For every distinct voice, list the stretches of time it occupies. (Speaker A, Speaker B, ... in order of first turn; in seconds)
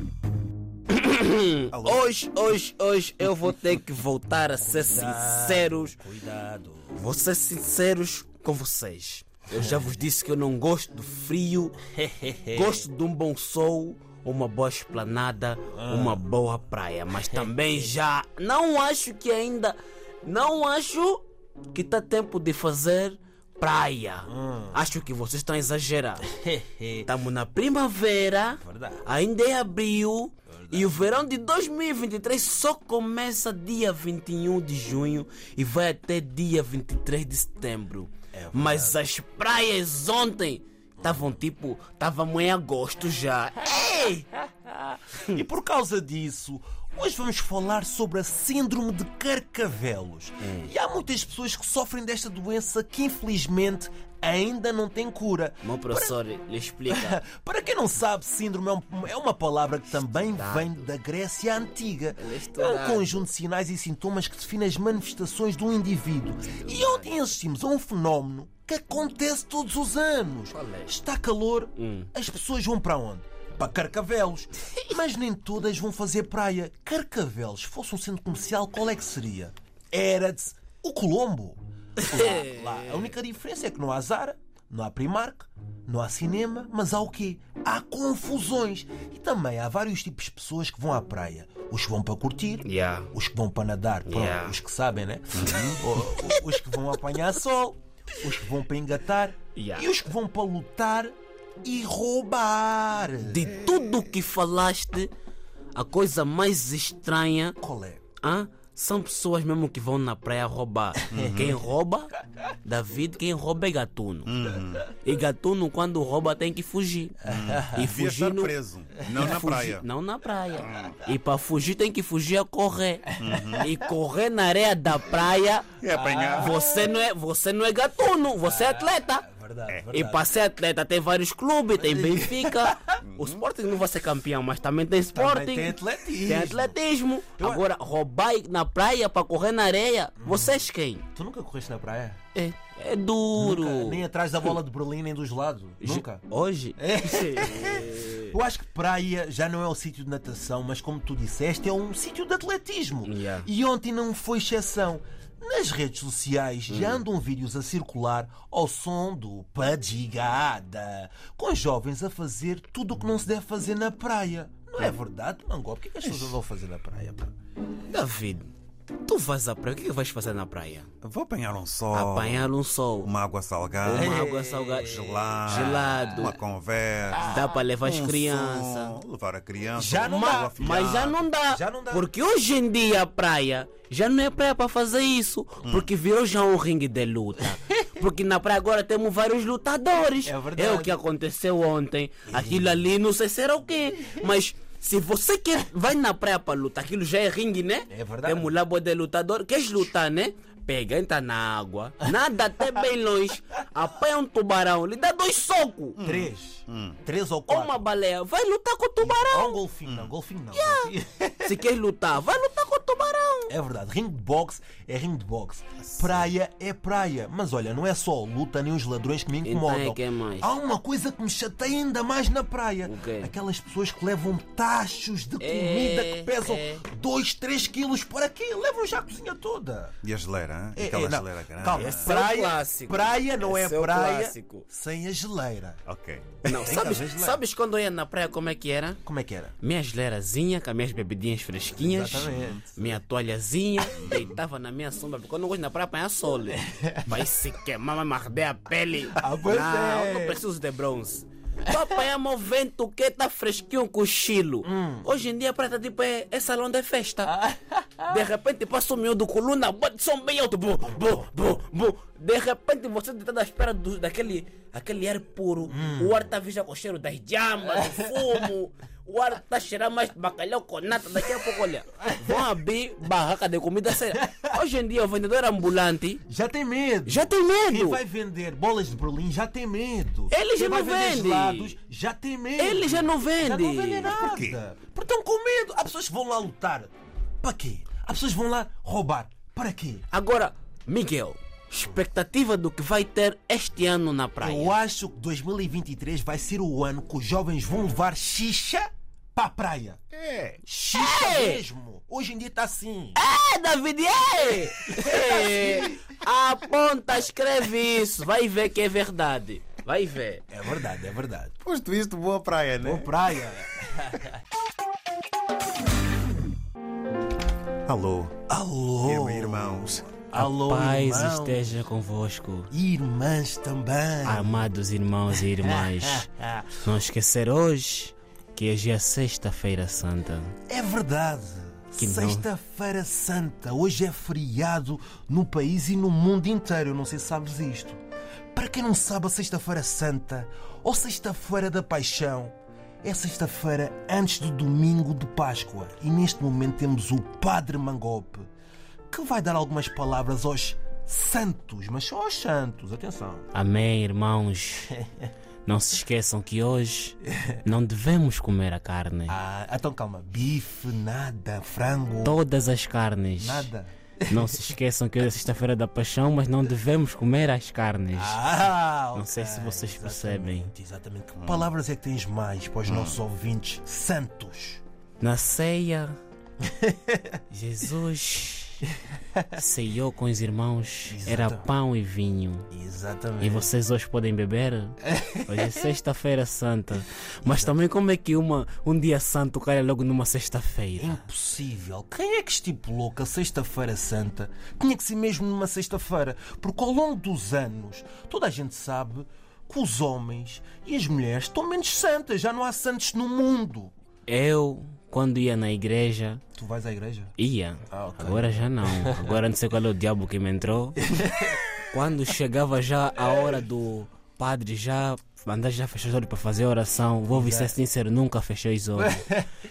Speaker A: 0.9-6.0, 6.9-11.8, 12.5-26.3, 27.0-44.3, 50.4-50.7, 55.6-57.2, 60.2-60.9, 62.2-63.2, 66.5-67.1, 70.5-70.9, 71.8-72.1, 82.0-83.0, 92.6-93.1, 94.1-94.5, 99.5-99.9, 103.2-105.1, 105.7-107.6, 108.2-112.1, 112.6-114.3, 115.0-118.5, 119.1-125.7, 126.3-129.2, 129.9-141.0, 142.3-144.0, 145.8-148.3, 153.0-153.5, 156.7-157.0, 167.9-168.5, 169.0-170.9, 171.9-173.1, 173.8-176.3, 177.2-179.0, 180.1-206.0, 207.5-209.6, 210.6-213.5, 219.4-220.5, 222.8-223.3, 225.4-226.8, 231.7-234.6, 236.4-239.0, 239.6-257.4, 258.1-276.2, 277.1-278.0, 280.3-281.8, 282.6-284.1, 290.1-294.7, 300.9-301.6, 303.1-310.4, 320.3-322.7, 324.2-326.3, 326.8-330.6, 332.0-332.4, 353.5-354.9, 355.7-359.3, 362.2-363.7, 364.3-368.4, 369.1-370.7, 375.2-376.2, 377.5-378.8, 379.5-382.7, 383.4-391.2, 404.3-406.4, 407.4-411.1, 411.9-419.3
Speaker B: 1.7-2.1, 95.3-95.8, 111.1-111.6, 114.2-114.9, 117.2-119.8, 120.7-121.0, 123.2-123.7, 125.8-126.6, 133.0-133.4, 171.0-172.5, 173.0-181.2, 206.0-207.0, 230.0-232.1, 235.8-236.4, 242.3-242.6, 243.9-244.3, 284.1-284.6, 300.1-300.6, 311.6-313.1, 317.9-318.4, 319.0-320.1, 371.4-371.7, 372.9-373.1
Speaker C: 4.6-7.0, 9.5-9.8, 11.9-12.8, 15.7-16.2, 24.3-24.8, 26.3-27.1, 28.6-29.0, 30.5-31.2, 38.3-39.0, 41.0-41.3, 45.3-56.2, 56.9-103.5, 107.6-108.0, 111.0-111.5, 117.2-117.7, 123.1-123.8, 125.9-126.9, 128.4-130.3, 131.7-133.0, 135.1-136.8, 137.3-137.6, 140.2-142.2, 143.3-146.2, 146.8-167.3, 173.9-176.2, 177.2-177.5, 179.7-182.1, 190.2-191.0, 192.3-192.8, 197.9-198.5, 206.0-207.8, 209.0-211.6, 213.5-229.9, 230.8-235.8, 236.5-237.4, 239.0-239.6, 241.7-243.0, 246.6-247.2, 249.1-250.4, 254.6-255.1, 257.3-258.1, 265.7-266.2, 267.8-268.4, 272.0-272.5, 274.1-274.6, 276.2-290.1, 294.4-300.0, 300.6-303.2, 304.9-306.0, 310.5-311.5, 312.8-314.4, 318.5-321.8, 322.7-324.7, 325.5-326.8, 330.7-338.0, 338.5-348.5, 349.1-353.5, 354.9-355.3, 357.3-357.6, 359.3-362.4, 363.4-364.7, 368.1-374.8, 376.7-377.2, 381.1-381.7, 382.7-383.7, 385.0-385.7, 387.4-387.7, 391.0-403.9, 406.5-407.4, 407.9-409.4, 411.0-411.6, 417.3-417.7, 419.0-419.5